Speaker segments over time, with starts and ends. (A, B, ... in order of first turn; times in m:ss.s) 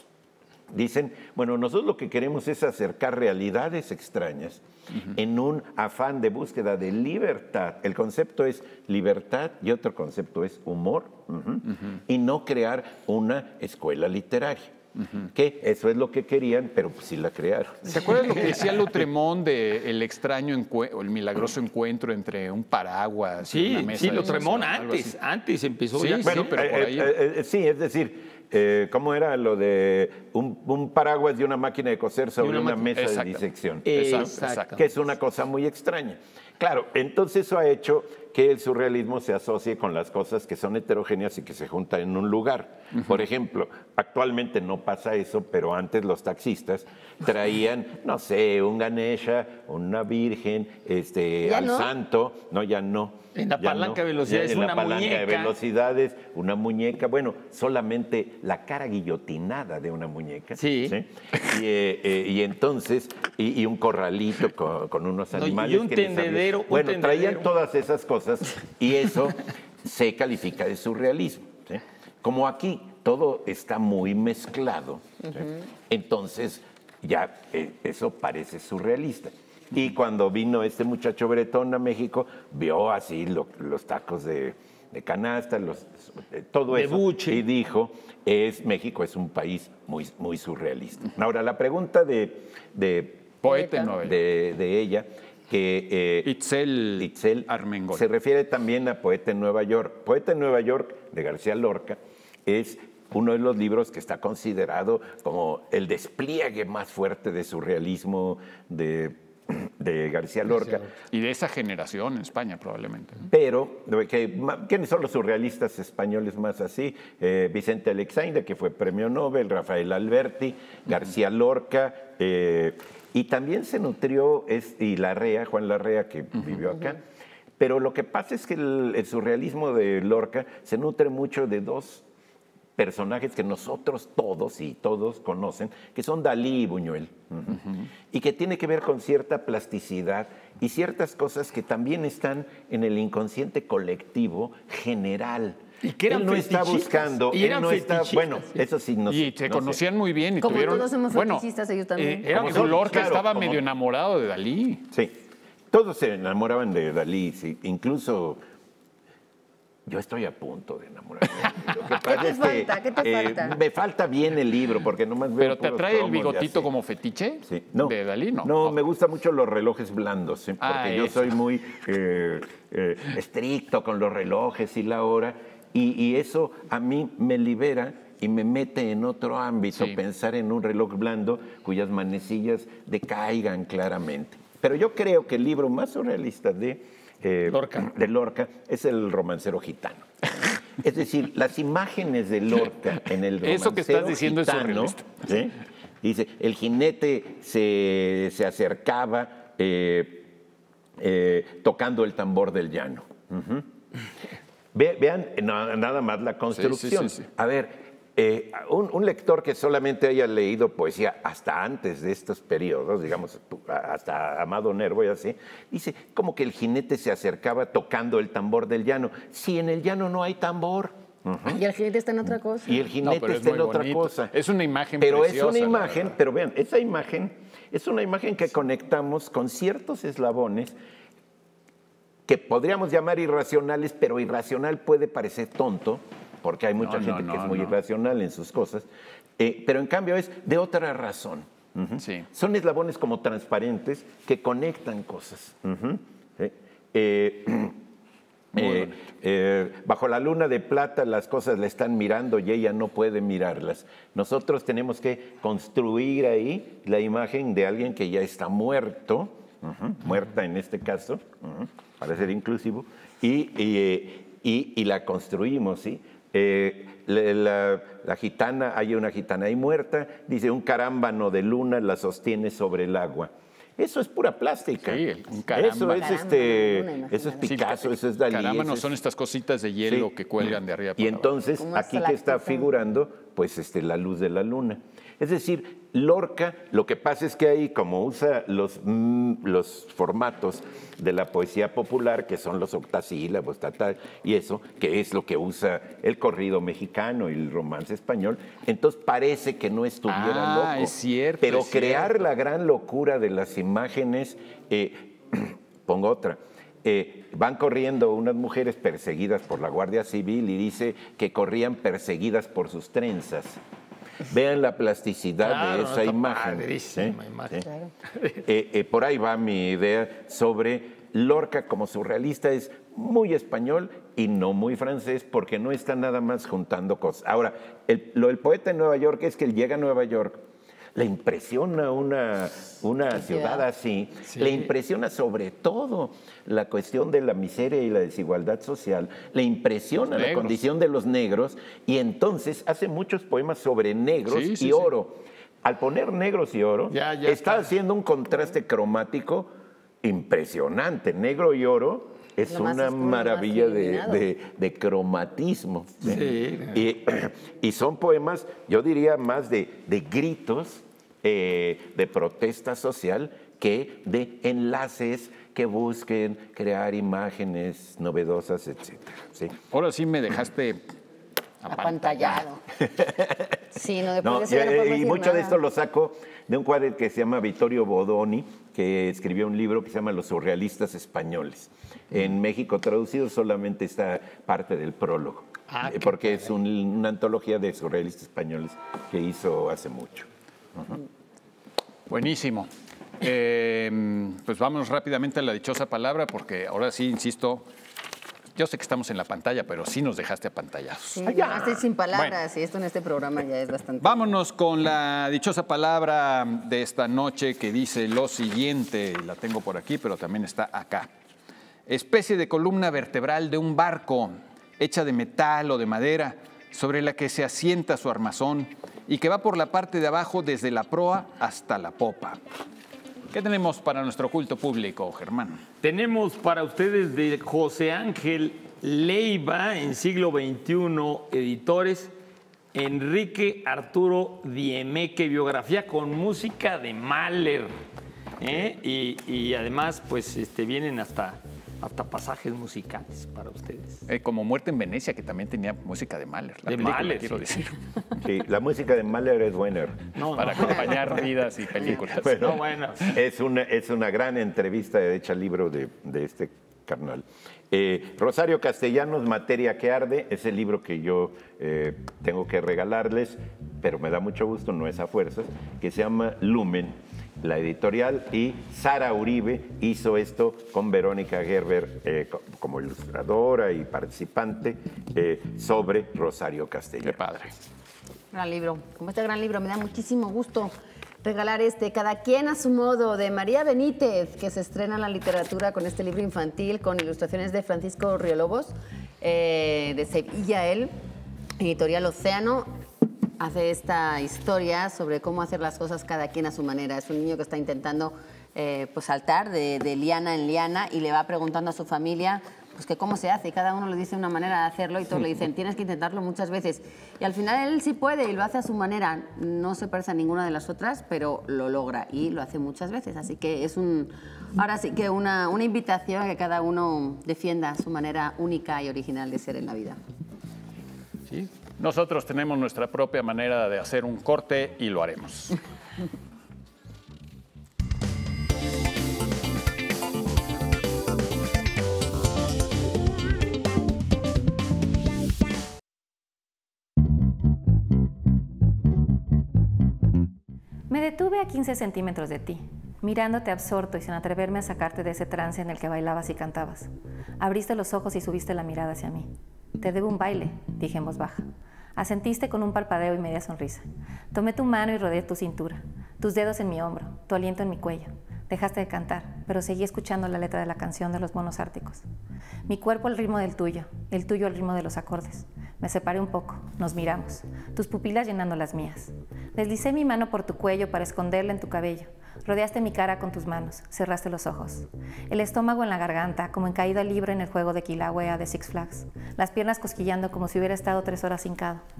0:00.7-0:18.5 A
0:17.9-0:25.1 B
0:23.5-0:26.6 C
0:25.9-0:27.1 B
0:26.2-1:33.4 A
0:32.4-0:32.9 C
0:32.9-0:34.8 B
0:33.8-0:34.9 C
0:51.4-0:51.9 D
0:53.3-0:55.5 C
1:00.6-1:01.0 C
1:05.3-1:07.5 C
1:26.7-1:27.4 C
1:33.4-1:34.2 B
1:33.5-1:33.8 D
1:34.0-1:36.3 A
1:36.2-1:38.0 B
1:37.0-1:50.9 A
1:51.0-1:53.3 B
1:53.3-2:07.0 A
2:07.6-2:12.0 A
2:12.8-2:29.8 A
2:25.8-2:28.6 C
2:29.1-2:31.4 B
2:30.4-2:32.3 D
2:32.0-2:34.8 B
2:32.2-2:33.2 C
2:32.3-2:33.6 A
2:35.7-2:38.4 A
2:39.8-2:46.7 A
2:41.9-2:43.6 D
2:45.4-2:48.8 B
2:47.5-3:20.3 A
2:50.6-2:51.3 B
3:07.5-3:07.9 C
3:13.4-3:15.2 B
3:21.0-3:23.7 A
3:24.7-3:41.6 A
3:26.6-3:27.2 B
3:41.4-3:42.8 D
3:42.6-3:44.3 A
3:43.0-3:46.1 B
3:45.0-3:50.8 A
3:52.2-3:58.9 A
3:56.8-3:57.7 B
3:59.4-4:07.8 A
4:02.0-4:02.2 B
4:08.5-4:38.9 A
4:08.5-4:09.0 B
4:34.8-4:36.1 B
4:35.9-4:37.5 D
4:37.4-4:41.3 B
4:39.8-5:13.6 A
4:41.6-4:42.7 D
5:00.1-5:02.2 B
5:14.2-5:17.6 A
5:15.4-5:17.6 C
5:18.4-5:30.4 A
5:30.9-5:49.5 A
5:40.1-5:40.6 B
5:44.3-5:44.9 B
5:46.9-5:47.7 C
5:50.0-6:09.6 A
5:52.5-5:54.2 D
5:56.0-5:56.8 C
6:09.7-6:10.8 B
6:11.6-6:12.4 B
6:11.7-6:12.6 D
6:12.8-6:13.6 A
6:13.7-6:15.6 D
6:14.2-6:31.0 A
6:25.7-6:26.4 C
6:32.1-6:37.6 B
6:38.5-6:42.4 B
6:41.1-6:44.3 D
6:44.0-6:51.1 B
6:51.9-7:02.4 B
7:03.3-7:05.6 B
7:05.8-7:12.1 C
7:12.7-7:17.7 C
7:18.4-7:24.0 C
7:24.1-7:27.8 B
7:26.7-7:27.5 C
7:28.2-7:30.1 A
7:30.1-7:31.2 C
7:30.4-7:32.5 B
7:32.0-7:57.2 A
7:32.2-7:33.2 C
7:57.0-7:57.5 B
7:58.3-8:10.9 D
8:11.6-8:12.7 D
8:13.4-8:40.0 D
8:41.8-8:45.6 B
9:00.9-9:06.9 E
9:07.4-9:22.0 E
9:22.6-9:41.8 E